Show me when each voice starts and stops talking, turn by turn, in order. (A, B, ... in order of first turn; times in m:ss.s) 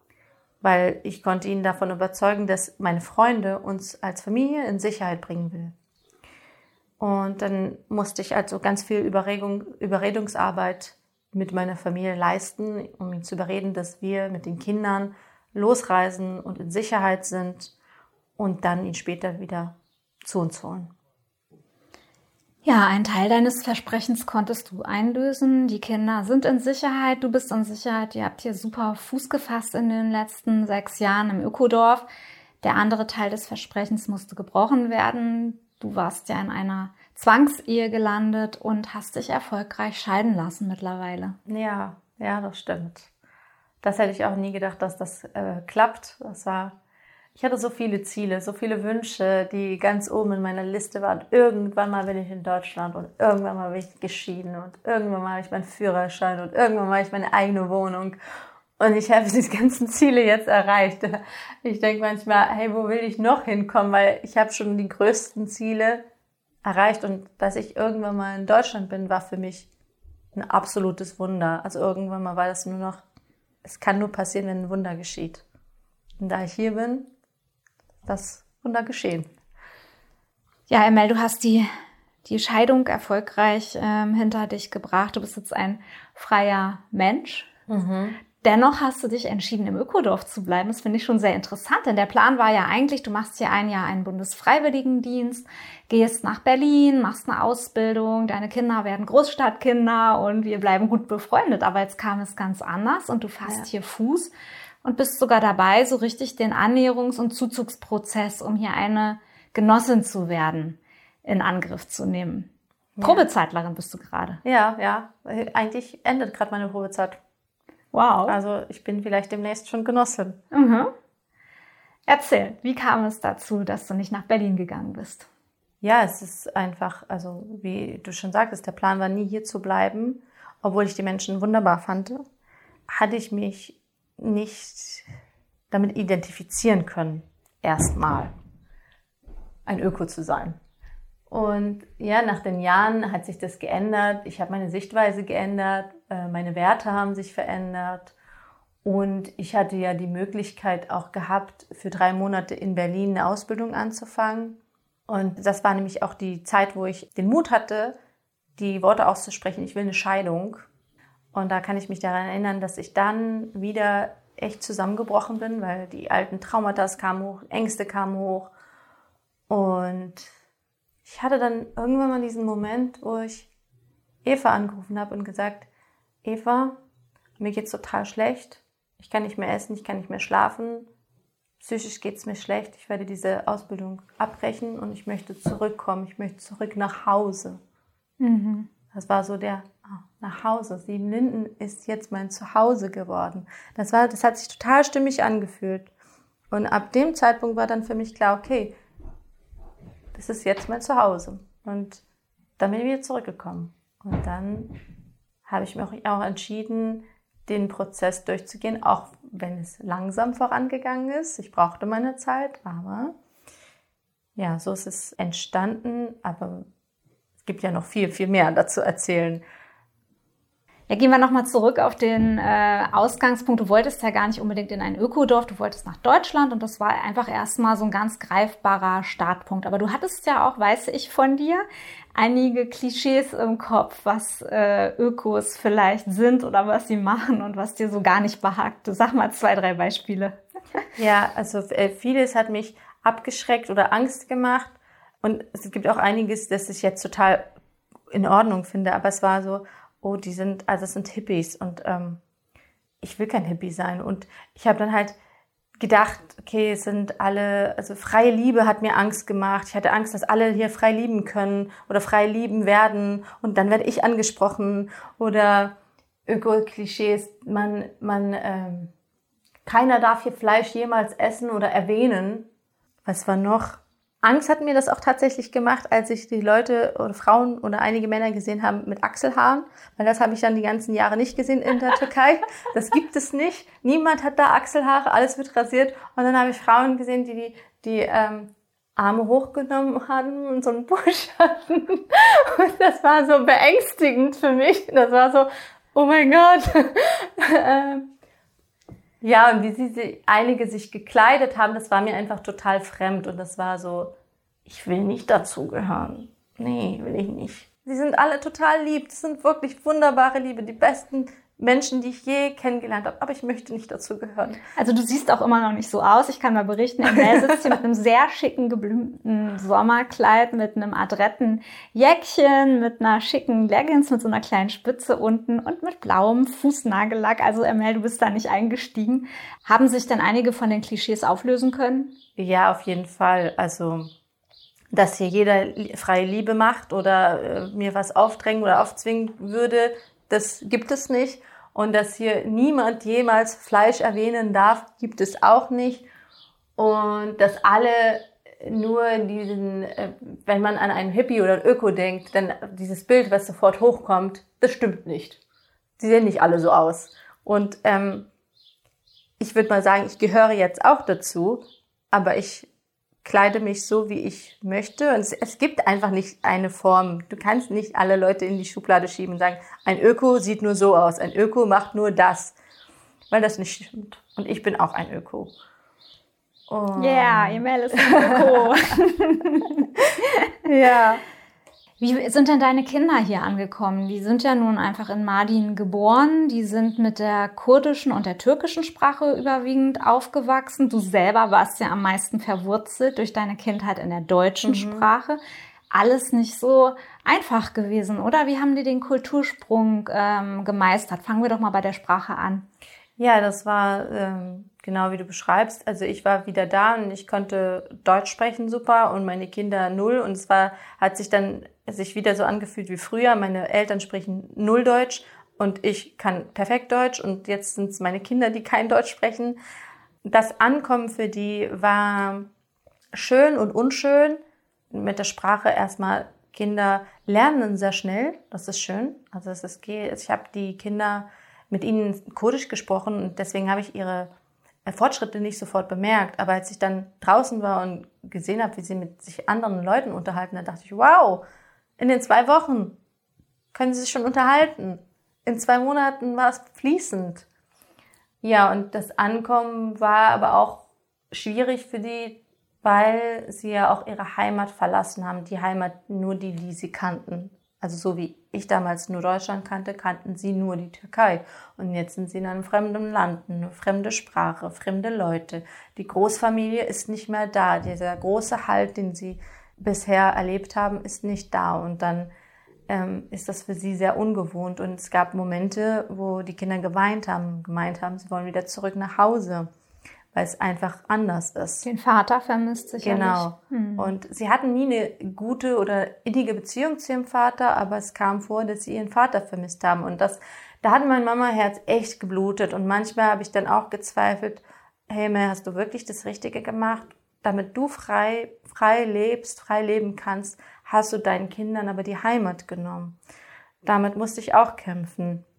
0:00.6-0:05.8 A
0:07.0-0:17.7 A
0:18.4-0:20.9 A
0:22.6-0:32.1 B
0:32.6-0:41.4 B
0:41.5-0:43.1 A
0:43.8-0:46.8 A
0:47.4-0:58.2 A
0:58.8-1:06.0 A
1:06.6-1:09.7 A
1:10.3-1:13.0 A
1:13.6-1:15.4 A
1:16.2-1:17.1 A
1:18.0-1:19.3 A
1:20.7-1:21.7 B
1:22.2-1:27.5 B
1:27.7-1:28.2 A
1:28.4-1:44.3 B
1:44.8-1:52.5 B
1:53.0-1:53.3 A
1:53.0-1:54.4 B
1:54.4-1:57.2 A
1:57.9-1:58.4 B
1:58.3-2:00.4 A
2:00.5-2:00.9 B
2:02.1-2:05.3 B
2:05.8-2:12.2 A
2:12.9-2:15.1 A
2:15.7-2:18.3 A
2:19.7-2:20.6 A
2:21.3-2:28.1 A
2:28.8-2:34.6 A
2:35.1-2:38.0 A
2:38.6-2:40.7 A
2:41.3-2:48.5 A
2:49.5-2:50.3 A
2:51.0-2:53.5 A
2:54.2-2:55.7 A
2:56.2-2:56.8 A
2:57.4-3:00.9 A
3:01.6-3:07.6 A
3:08.2-3:08.7 B
3:08.9-3:15.9 A
3:16.5-3:18.7 A
3:20.1-3:22.0 A
3:22.6-3:24.7 A
3:25.4-3:33.1 A
3:34.4-3:36.7 A
3:37.4-3:39.4 A
3:40.9-3:51.6 B
3:52.2-4:00.4 B
4:01.0-4:07.5 A
4:08.1-4:12.2 A
4:13.0-4:15.2 A
4:15.8-4:25.8 A
4:26.3-4:28.9 A
4:29.6-4:32.5 A
4:33.1-4:58.1 A
4:59.2-5:04.1 A
5:04.7-5:14.6 A
5:14.8-5:32.1 B
5:17.1-5:17.8 A
5:32.4-5:34.1 A
5:34.9-5:46.1 A
5:46.8-5:55.4 A
5:56.0-5:58.3 A
5:59.4-6:02.7 A
6:03.2-6:12.6 A
6:13.3-6:15.5 A
6:16.7-6:18.8 A
6:17.0-6:21.0 B
6:20.7-6:21.2 A
6:22.0-6:35.4 B
6:34.6-6:35.1 A
6:35.9-6:42.6 B
6:43.2-6:59.6 A
7:00.2-7:02.5 A
7:03.1-7:14.3 A
7:14.9-7:21.4 A
7:22.0-7:23.0 A
7:23.7-7:27.5 A
7:28.4-7:52.3 A
7:52.9-7:59.7 A
8:00.3-8:01.9 A
8:01.8-8:04.2 B
8:03.0-8:23.2 A
8:23.8-8:25.4 A